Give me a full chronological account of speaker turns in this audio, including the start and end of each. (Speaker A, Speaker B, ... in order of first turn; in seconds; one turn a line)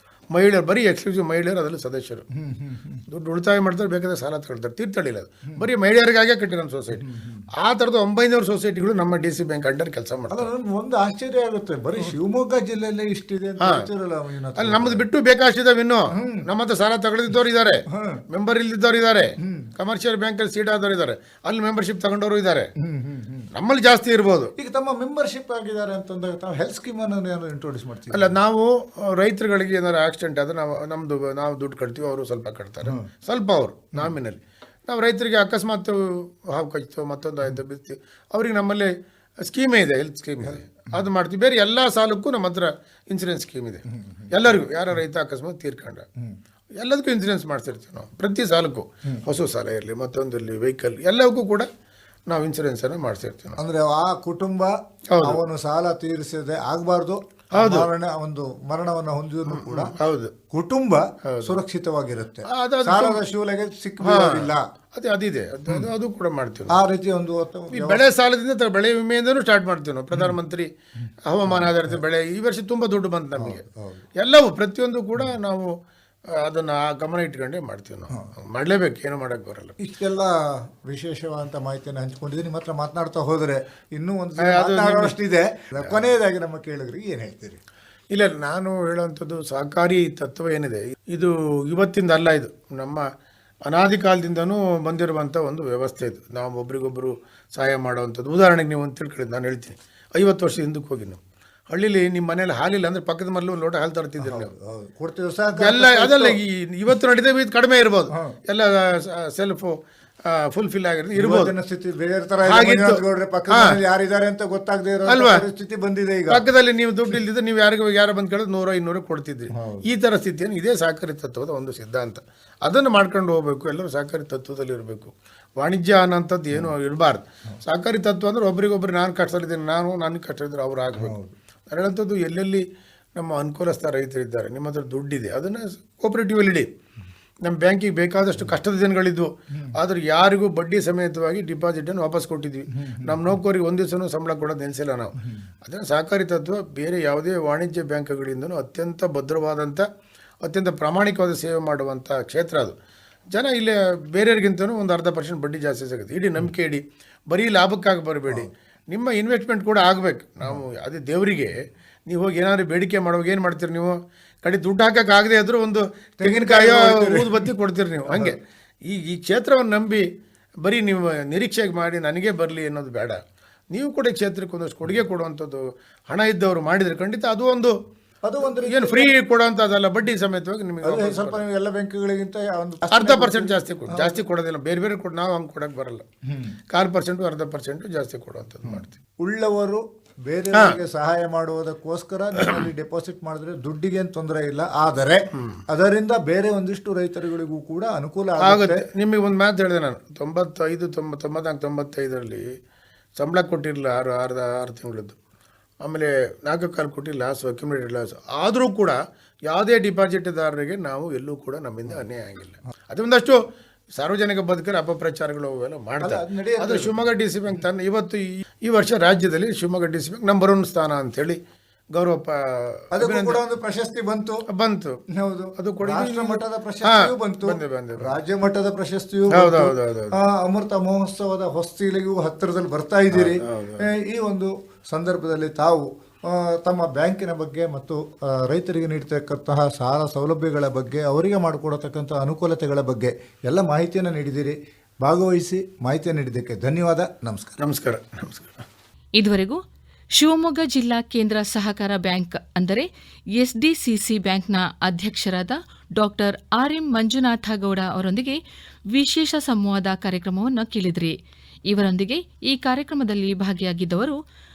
Speaker A: 0.3-2.3
Speaker B: 2.4-3.0
Speaker A: 3.1-10.5
Speaker B: 6.9-7.5
Speaker B: 10.3-15.1
Speaker A: 13.6-13.9
Speaker A: 14.6-22.7
Speaker B: 16.1-16.5
Speaker B: 17.9-18.2
Speaker B: 19.4-19.7
Speaker B: 22.8-23.5
Speaker A: 23.6-24.5
Speaker B: 24.6-28.4
Speaker A: 28.1-46.1
Speaker B: 40.5-41.0
Speaker B: 43.9-44.3
Speaker A: 46.8-51.7
Speaker A: 52.3-53.6
Speaker B: 53.6-59.9
Speaker A: 55.1-55.4
Speaker A: 57.5-57.9
Speaker A: 59.5-60.3
Speaker B: 60.5-64.7
Speaker A: 61.3-61.6
Speaker A: 62.5-63.3
Speaker A: 64.0-66.9
Speaker B: 66.7-68.0
Speaker A: 67.7-70.7
Speaker A: 71.2-73.6
Speaker B: 71.5-72.0
Speaker B: 73.4-74.0
Speaker A: 74.2-75.7
Speaker A: 76.3-79.8
Speaker B: 79.8-87.6
Speaker A: 84.4-85.1
Speaker A: 85.8-86.0
Speaker A: 88.1-93.0
Speaker A: 93.7-104.5
Speaker B: 104.2-106.4
Speaker A: 105.6-111.5
Speaker B: 108.1-108.4
Speaker B: 111.1-116.5
Speaker A: 112.5-113.8
Speaker A: 115.1-115.4
Speaker A: 116.3-131.2
Speaker B: 119.5-119.8
Speaker B: 131.0-131.3
Speaker A: 131.7-132.6
Speaker A: 133.2-136.7
Speaker A: 137.4-145.1
Speaker B: 139.5-139.8
Speaker B: 142.7-143.4
Speaker B: 145.2-145.5
Speaker A: 145.7-149.9
Speaker A: 150.4-152.8
Speaker A: 153.3-161.6
Speaker A: 162.1-170.1
Speaker B: 166.2-167.5
Speaker B: 168.1-168.4
Speaker A: 170.6-173.2
Speaker A: 173.7-177.8
Speaker B: 178.2-179.1
Speaker A: 178.5-181.4
Speaker B: 180.8-184.2
Speaker A: 182.9-186.1
Speaker B: 186.3-186.6
Speaker A: 186.7-188.9
Speaker B: 188.7-198.8
Speaker A: 190.5-190.8
Speaker A: 192.4-192.7
Speaker A: 198.4-202.5
Speaker A: 203.2-205.2
Speaker A: 205.8-209.0
Speaker A: 209.5-213.4
Speaker A: 214.0-221.4
Speaker B: 216.0-217.0
Speaker A: 221.9-223.4
Speaker B: 222.9-224.4
Speaker A: 224.5-225.0
Speaker B: 225.1-247.6
Speaker A: 225.6-228.2
Speaker A: 229.3-230.2
Speaker A: 233.1-233.9
Speaker A: 247.6-248.6
Speaker C: 249.2-249.6
Speaker C: 250.2-258.4
Speaker C: 258.9-261.2
Speaker C: 261.7-264.2